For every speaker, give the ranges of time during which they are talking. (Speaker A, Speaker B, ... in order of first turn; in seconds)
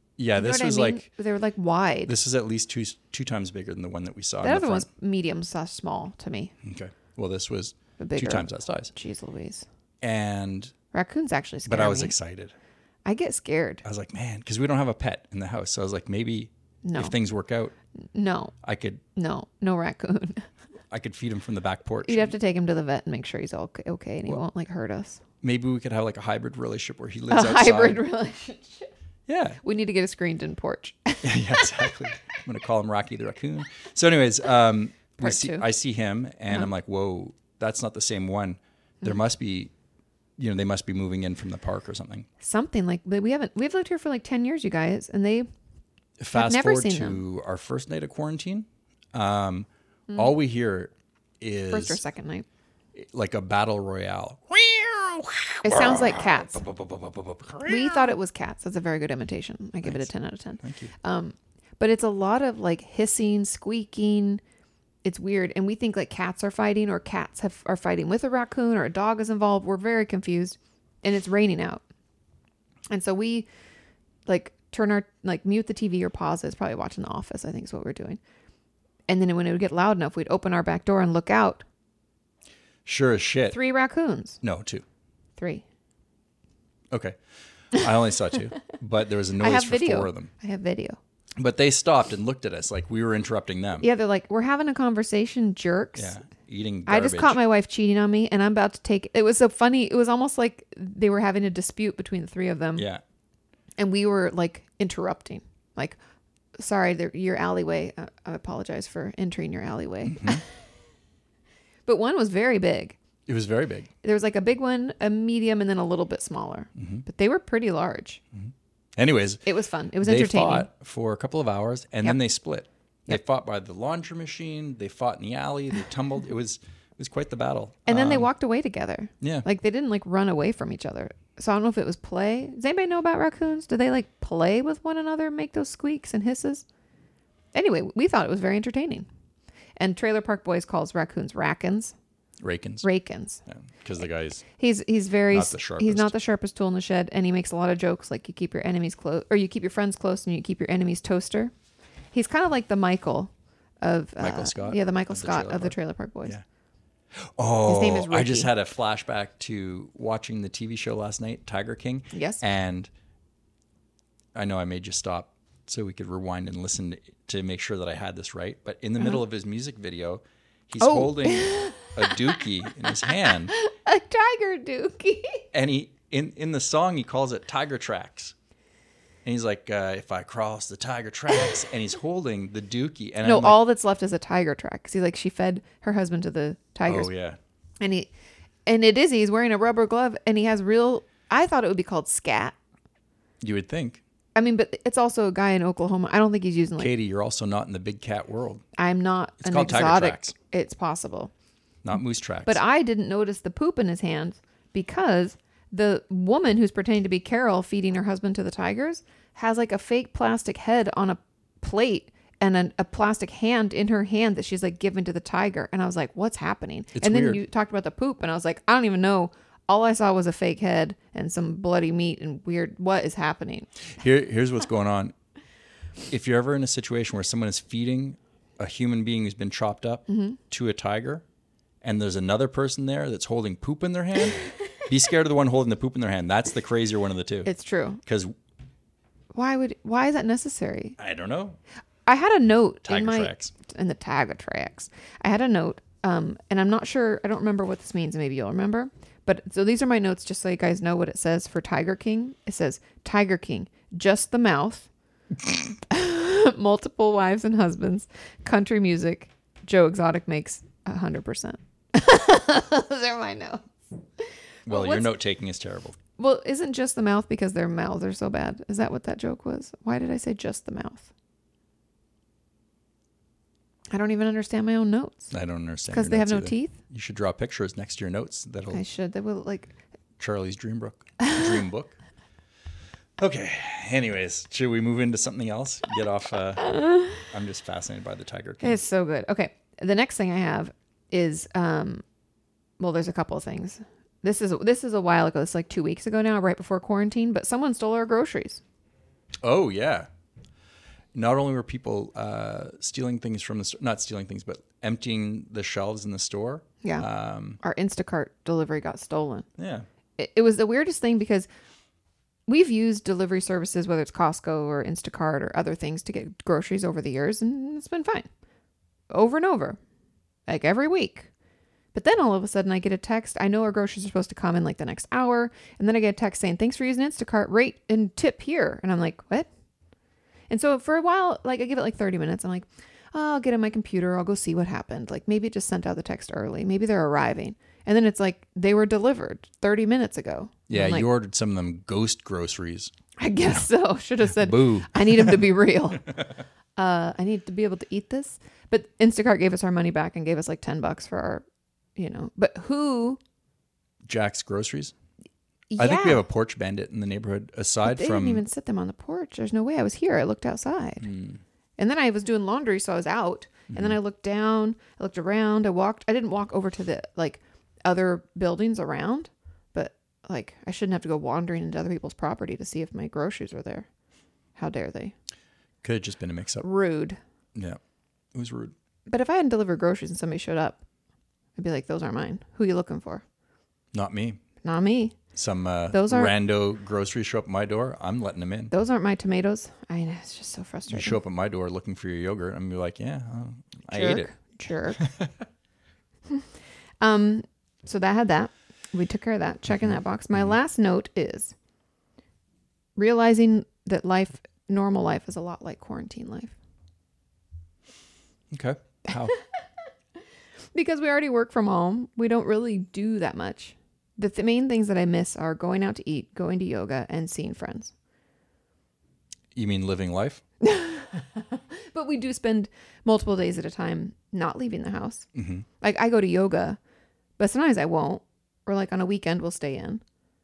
Speaker A: 0.2-1.1, 2.1-4.9, 6.6-8.9, 10.0-10.7, 11.7-12.6, 13.8-17.7, 18.6-19.0, 20.9-22.3, 25.4-28.0, 29.3-29.6, 31.2-39.7, 40.4-42.3, 46.2-52.0, 53.0-58.1, 59.8-60.1, 60.6-60.9, 82.8-83.6, 84.4-84.8, 86.9-87.2, 87.7-90.3, 91.4-93.9, 96.0-97.4, 102.8-103.0, 110.1-110.4, 113.3-113.9, 116.8-117.0, 118.3-119.4, 120.0-128.3, 129.2-129.5, 142.4-142.9, 143.5-144.4, 145.3-146.1, 154.2-156.4, 157.1-162.9, 164.3-173.5, 175.5-178.3, 179.2-183.6, 186.9-187.4, 193.4-194.0, 196.8-198.6, 199.4-200.3, 201.8-202.6, 216.9-217.4, 223.9-225.1, 226.1-231.2, 231.8-237.5, 238.0-238.3, 241.0-241.6, 242.9-243.5, 264.7-266.0, 275.3-278.8, 280.2-282.0, 283.2-288.8, 299.4-300.1, 301.1-307.6, 309.6-309.9, 340.7-342.9, 344.3-345.5, 354.1-354.9, 355.8-358.4, 361.0-361.4, 363.7-364.0, 375.8-376.6, 378.3-378.7, 383.9-384.4, 385.3-388.7, 390.9-394.3, 395.0-395.3, 399.8-400.6, 408.5-409.4, 419.6-420.4, 425.4-425.7
Speaker B: 0.3-2.1, 4.4-6.5, 8.0-9.6, 10.9-12.1, 13.1-13.8, 16.9-17.1, 18.1-18.6, 19.1-20.5, 22.1-25.2, 27.3-28.9, 29.6-32.1, 35.2-35.7, 42.4-45.5, 46.3-47.2, 51.7-52.5, 55.6-56.6, 57.6-64.4, 65.0-71.8, 72.9-73.5, 74.3-78.2, 79.1-81.6, 83.5-84.4, 85.4-85.6, 89.4-91.0, 93.8-96.1, 96.9-102.9, 103.8-106.0, 106.6-110.4, 111.9-113.0, 114.0-118.2, 119.5-120.7, 127.9-136.6, 137.5-139.1, 139.8-141.9, 142.8-143.4, 144.6-151.5, 152.1-156.4, 157.7-158.5, 162.1-162.4, 170.8-175.4, 183.2-187.1, 187.8-188.1, 188.7-192.6, 194.3-196.9, 198.8-201.3, 202.5-223.7, 230.1-230.4, 237.5-238.0, 239.3-241.0, 242.1-254.9, 255.8-265.1, 266.2-271.1, 273.9-275.3, 275.9-276.8, 278.7-279.7, 281.2-281.5, 286.6-287.3, 288.6-292.0, 292.8-298.6, 307.6-309.5, 310.2-311.5, 312.5-318.3, 319.1-319.8, 320.5-321.3, 321.9-329.5, 330.5-341.1, 343.2-346.2, 346.8-351.4, 352.0-353.2, 355.7-356.2, 357.8-361.1, 361.8-373.9, 374.6-375.1, 376.6-377.2, 379.1-380.8, 381.6-383.2, 384.6-385.2, 385.9-386.3, 388.7-391.2, 393.9-395.0, 397.0-401.6, 403.0-406.6, 410.7-417.9, 420.6-425.3, 425.8-426.8, 427.4-430.0